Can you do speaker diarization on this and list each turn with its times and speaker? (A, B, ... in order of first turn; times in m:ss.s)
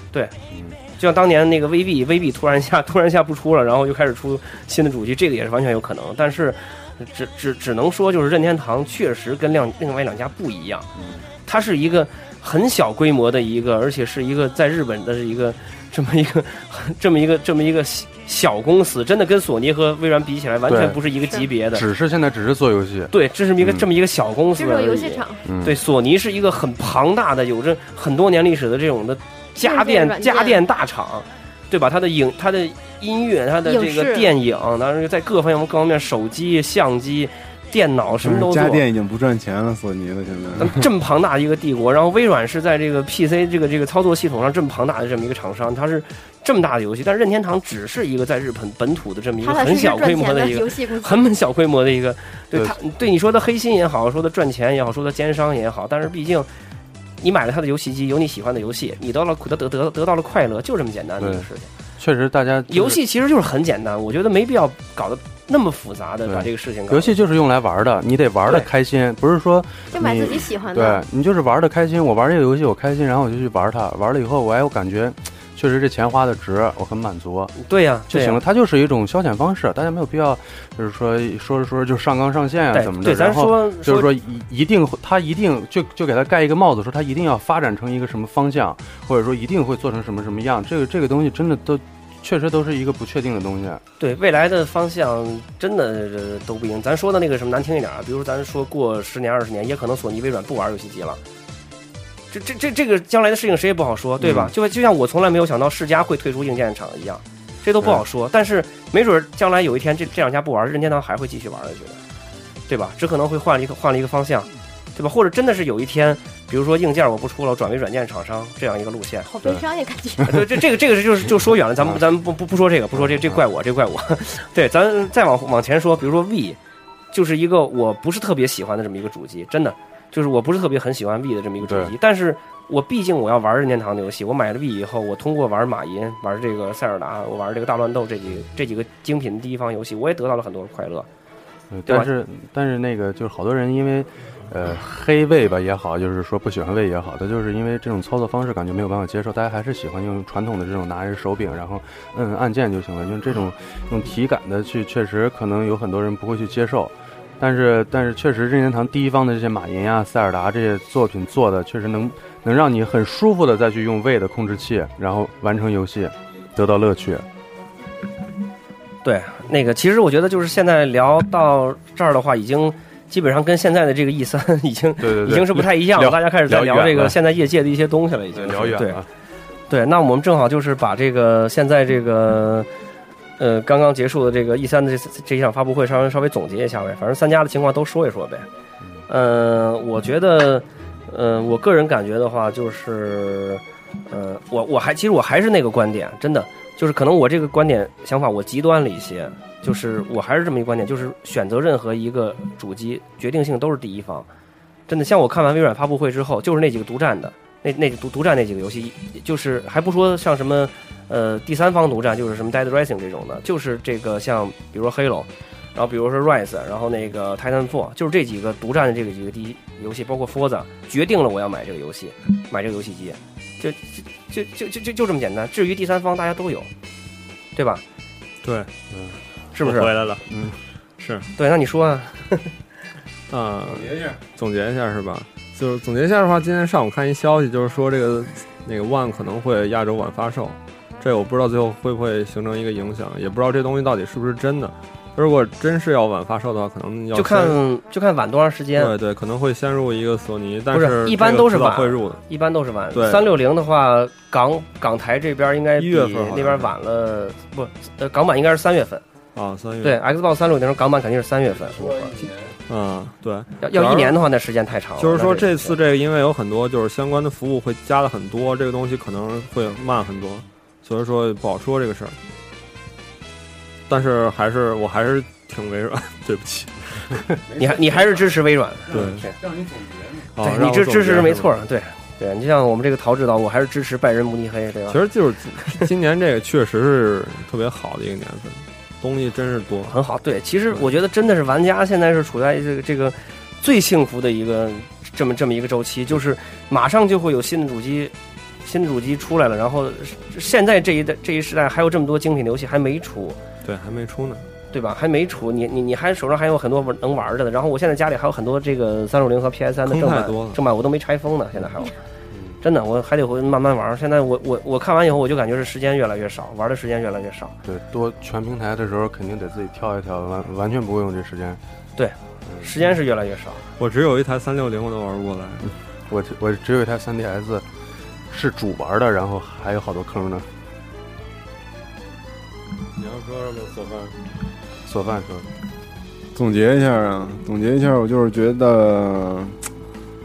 0:00.5-0:00.8 A
0:01.0-0:10.9 B
0:11.0-0:11.3 A
0:11.5-0:21.9 B
0:20.7-0:21.0 A
0:21.6-0:23.9 A
0:23.1-0:38.8 B
0:24.6-0:25.4 C
0:25.4-0:25.8 A
0:29.6-0:30.6 C
0:33.6-0:34.3 C
0:38.2-0:40.8 D
0:40.6-0:56.5 B
0:49.4-0:51.2 C
0:57.2-1:01.7 B
1:01.2-1:03.0 A
1:02.7-1:07.2 B
1:06.3-1:17.6 A
1:09.9-1:11.0 C
1:17.6-1:18.4 B
1:18.1-1:33.8 A
1:22.7-1:24.1 B
1:34.0-1:41.2 B
1:42.3-1:52.0 B
1:44.2-1:44.5 A
1:52.7-1:59.3 B
1:59.2-2:00.5 C
2:00.3-2:06.6 B
2:02.9-2:03.4 A
2:07.1-2:21.1 B
2:11.6-2:11.9 A
2:21.7-2:47.3 A
2:49.0-2:59.0 B
2:55.0-2:57.2 A
2:58.3-2:59.1 A
2:59.7-3:02.7 B
3:03.4-3:08.5 B
3:09.1-3:24.3 B
3:24.9-3:46.7 B
3:47.6-3:47.8 B
3:48.4-3:48.7 E
3:48.9-3:49.2 A
3:49.5-3:50.0 B
3:49.6-3:51.3 E
3:50.3-3:50.6 A
3:51.4-3:52.5 B
3:53.3-4:07.6 E
4:07.1-4:09.0 B
4:08.8-4:12.2 E
4:10.7-4:19.0 B
4:12.9-4:13.3 E
4:15.8-4:16.7 E
4:19.4-4:20.0 E
4:19.8-4:22.3 B
4:21.7-4:22.5 D
4:22.7-4:24.2 E
4:23.6-4:25.8 B
4:25.0-4:32.2 E
4:33.9-4:37.2 E
4:37.5-4:38.2 D
4:37.6-4:39.3 B
4:38.9-4:39.3 E
4:40.4-4:41.5 E
4:40.4-4:45.0 B
4:44.9-4:49.9 E
4:45.6-4:45.9 B
4:49.9-4:58.1 B
4:58.6-5:03.4 B
5:03.6-5:04.5 E
5:04.7-5:12.0 B
5:09.9-5:10.6 E
5:12.3-5:12.6 A
5:12.6-5:17.6 B
5:17.6-5:21.6 A
5:22.0-5:23.7 B
5:22.5-5:22.7 A
5:23.8-5:25.7 E
5:25.6-5:27.7 A
5:28.3-5:30.5 A
5:33.0-5:34.2 E
5:34.8-5:35.5 A
5:36.4-5:39.6 D